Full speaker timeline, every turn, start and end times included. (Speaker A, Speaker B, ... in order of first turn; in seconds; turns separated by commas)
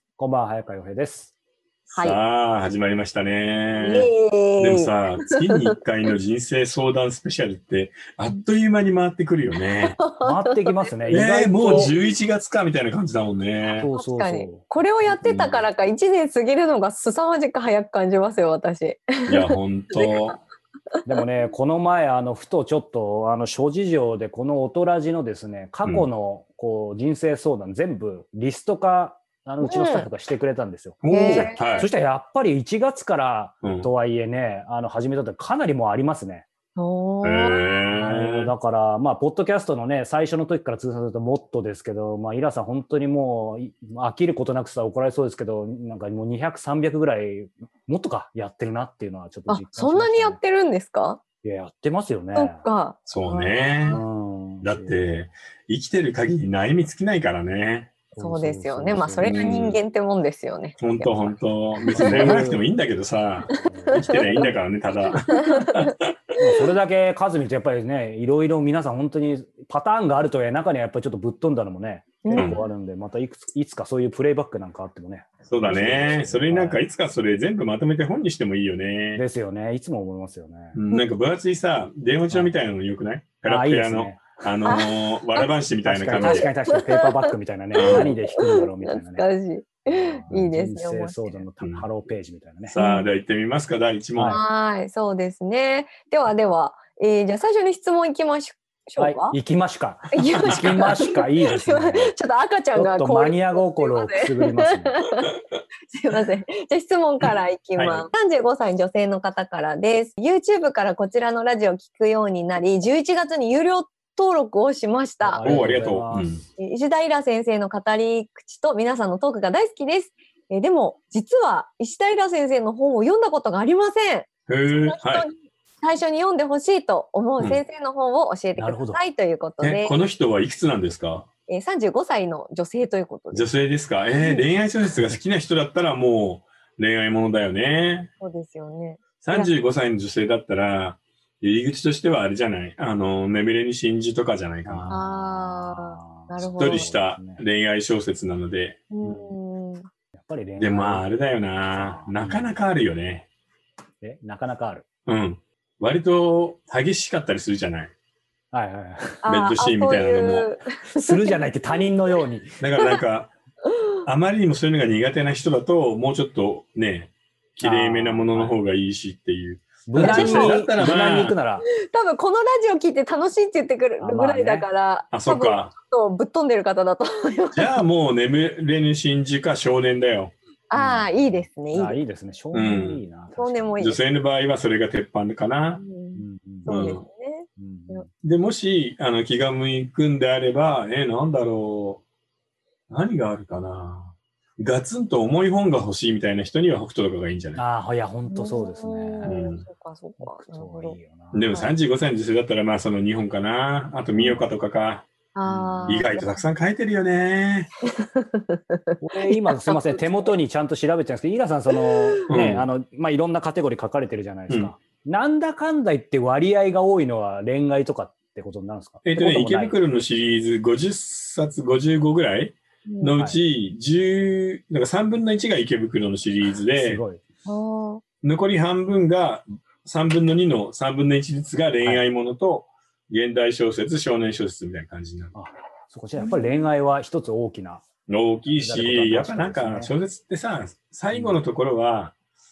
Speaker A: 0.2-1.3, Speaker B: 1.9-2.2, Speaker C: 2.0-10.0, Speaker B: 3.8-4.9, Speaker B: 5.5-5.7, Speaker B: 9.8-11.9, Speaker A: 10.2-11.9, Speaker C: 11.1-13.9, Speaker A: 13.8-14.6, Speaker B: 13.9-20.1, Speaker C: 15.2-15.6, Speaker C: 19.3-20.4, Speaker A: 21.0-36.5, Speaker B: 29.6-30.1, Speaker C: 31.0-31.9, Speaker B: 31.1-31.9, Speaker C: 33.6-33.9, Speaker B: 36.8-37.6, Speaker C: 37.2-38.5, Speaker A: 37.9-50.4, Speaker B: 49.5-51.2, Speaker A: 51.4-52.6, Speaker B: 52.3-54.0, Speaker C: 53.1-54.0, Speaker A: 53.9-55.0, Speaker C: 54.6-57.9, Speaker A: 58.1-59.8, Speaker B: 58.2-62.4, Speaker C: 59.2-59.8, Speaker C: 60.8-66.1, Speaker A: 61.9-62.6, Speaker B: 63.5-64.5, Speaker A: 63.6-64.6, Speaker B: 65.3-65.9, Speaker A: 66.4-76.8, Speaker B: 72.2-72.7, Speaker C: 72.3-72.6, Speaker C: 75.5-79.2, Speaker A: 79.2-80.8, Speaker C: 80.7-86.5, Speaker A: 82.3-82.5, Speaker A: 83.4-84.4, Speaker B: 84.6-85.5, Speaker A: 85.8-89.3, Speaker B: 86.1-91.4, Speaker C: 87.8-88.1, Speaker A: 89.8-92.8, Speaker C: 91.6-91.9, Speaker C: 92.6-94.4, Speaker B: 92.7-93.1, Speaker A: 94.1-94.4, Speaker B: 94.3-99.3, Speaker A: 99.0-102.1, Speaker B: 100.1-105.3, Speaker A: 102.7-105.0, Speaker B: 105.9-115.7, Speaker C: 107.2-108.0, Speaker A: 115.2-116.4, Speaker C: 115.4-116.4, Speaker B: 116.6-124.3, Speaker C: 124.5-125.3, Speaker B: 124.8-130.0, Speaker A: 128.6-129.0, Speaker C: 129.6-131.3, Speaker B: 131.5-133.5, Speaker C: 133.3-138.1, Speaker B: 134.2-134.5, Speaker B: 138.2-139.5, Speaker C: 139.2-144.9, Speaker A: 144.6-147.4, Speaker B: 144.9-146.9, Speaker C: 146.6-148.8, Speaker B: 148.9-149.9, Speaker A: 149.0-149.3, Speaker A: 150.1-151.0, Speaker C: 150.6-153.3, Speaker A: 151.7-152.5, Speaker A: 154.0-154.8, Speaker C: 155.1-157.9, Speaker A: 158.5-159.2, Speaker B: 159.2-161.4, Speaker C: 159.3-160.5, Speaker A: 160.9-162.6, Speaker C: 162.6-163.3, Speaker C: 164.1-171.4, Speaker A: 167.6-168.6, Speaker A: 169.9-171.7, Speaker B: 170.0-170.6, Speaker B: 171.9-177.8, Speaker A: 174.0-174.7, Speaker C: 175.1-175.7, Speaker C: 177.5-180.3, Speaker B: 180.7-182.0, Speaker A: 180.7-183.8, Speaker C: 182.5-183.0, Speaker B: 183.3-184.0, Speaker C: 183.8-185.8, Speaker B: 185.7-188.0, Speaker A: 186.2-186.9, Speaker C: 186.7-187.0, Speaker A: 187.6-188.1, Speaker C: 188.2-192.0, Speaker C: 192.9-197.6, Speaker A: 197.6-199.5, Speaker B: 198.3-201.7, Speaker C: 199.2-199.6, Speaker A: 200.2-201.6, Speaker C: 201.3-205.1, Speaker A: 204.2-204.4, Speaker B: 205.3-206.2, Speaker A: 205.4-206.2, Speaker C: 205.9-207.7, Speaker B: 208.0-208.8, Speaker A: 209.0-219.8, Speaker B: 209.3-210.3, Speaker C: 212.3-212.7, Speaker C: 219.0-227.0, Speaker B: 222.9-223.2, Speaker A: 226.7-227.2, Speaker B: 227.4-228.0, Speaker C: 228.2-235.3, Speaker A: 235.3-237.8, Speaker B: 236.2-236.6, Speaker C: 238.1-242.1, Speaker A: 238.5-239.9, Speaker A: 241.1-241.4